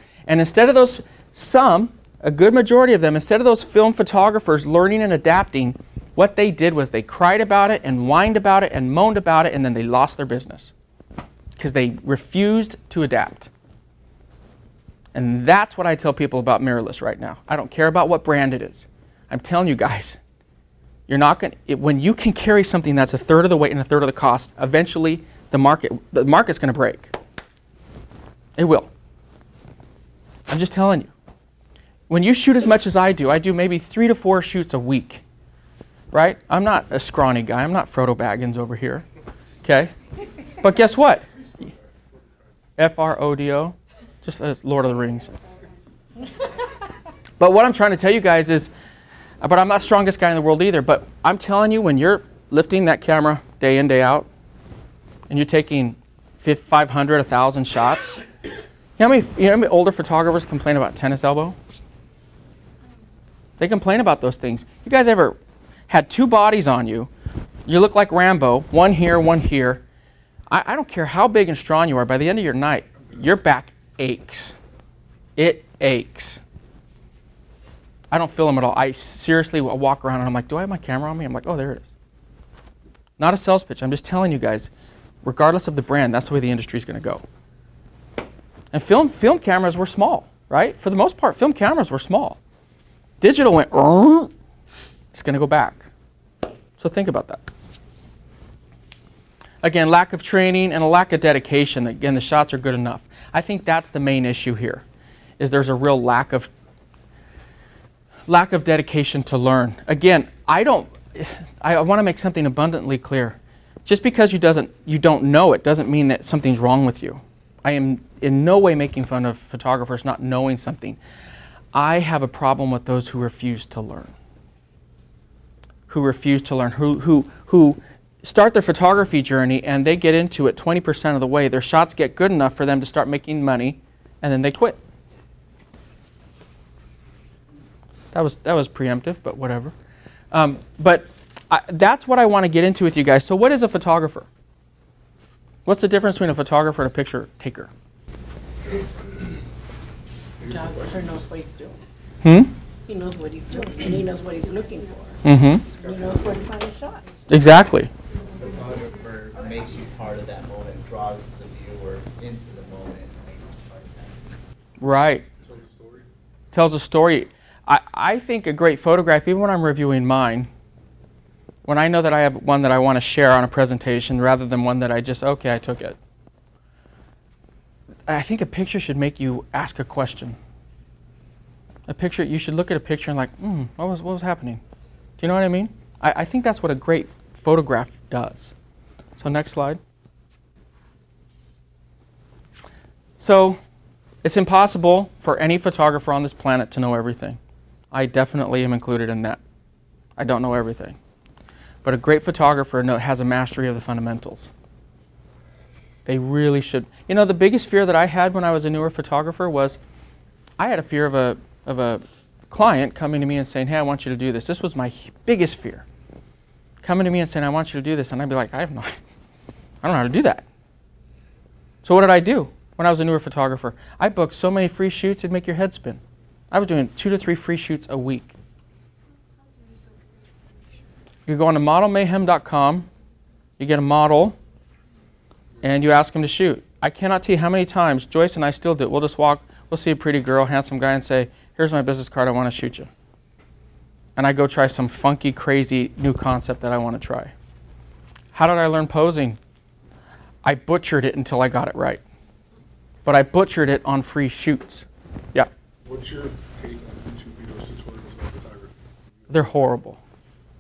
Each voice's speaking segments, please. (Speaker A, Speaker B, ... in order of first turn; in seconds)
Speaker A: 0.3-10.7, 11.6-13.5, 15.1-20.2, 21.1-27.1, 28.6-28.9, 30.5-31.1, 32.1-35.2, 36.1-39.0, 39.6-39.9, 40.6-41.2, 42.8-45.3, 47.4-48.7, 49.4-54.3, 55.3-58.2, 59.0-61.6, 63.6-65.4, 65.9-67.1, 67.7-69.8, 70.5-74.5, 75.4-76.4, 78.1-81.9, 83.2-84.7, 85.2-87.2, 88.7-92.4, 93.2-94.3, 95.1-95.9, 96.8-97.4, 99.6-104.8, 105.4-106.5, 108.3-121.0, 121.7-124.1, 125.9-134.8, 138.1-139.7, 140.3-144.3, 145.7-147.7, 152.2-152.5, 155.2-155.6, 157.3-157.9, 164.8-165.2, 166.5-170.5, 171.7-176.0, 178.1-180.4, 181.9-184.6, 185.2-188.5, 189.2-189.8, 193.2-193.6, 194.2-197.4, 197.9-199.4, 200.2-201.0, 201.8-204.5, 206.1-209.8, 210.6-215.8, 216.8-219.0, 219.8-220.4, 221.8-228.3, 231.3-232.9, 233.6-234.4, 235.6-242.9, 244.2-247.3, 248.3-249.4, 250.4-252.0, 253.0-255.5, 259.3-260.0
Speaker B: 41.4-42.2, 148.7-149.3, 150.4-151.3, 155.7-156.5, 165.4-166.1, 255.8-258.7
Speaker C: 150.4-151.8, 152.9-157.1
Speaker D: 158.3-164.4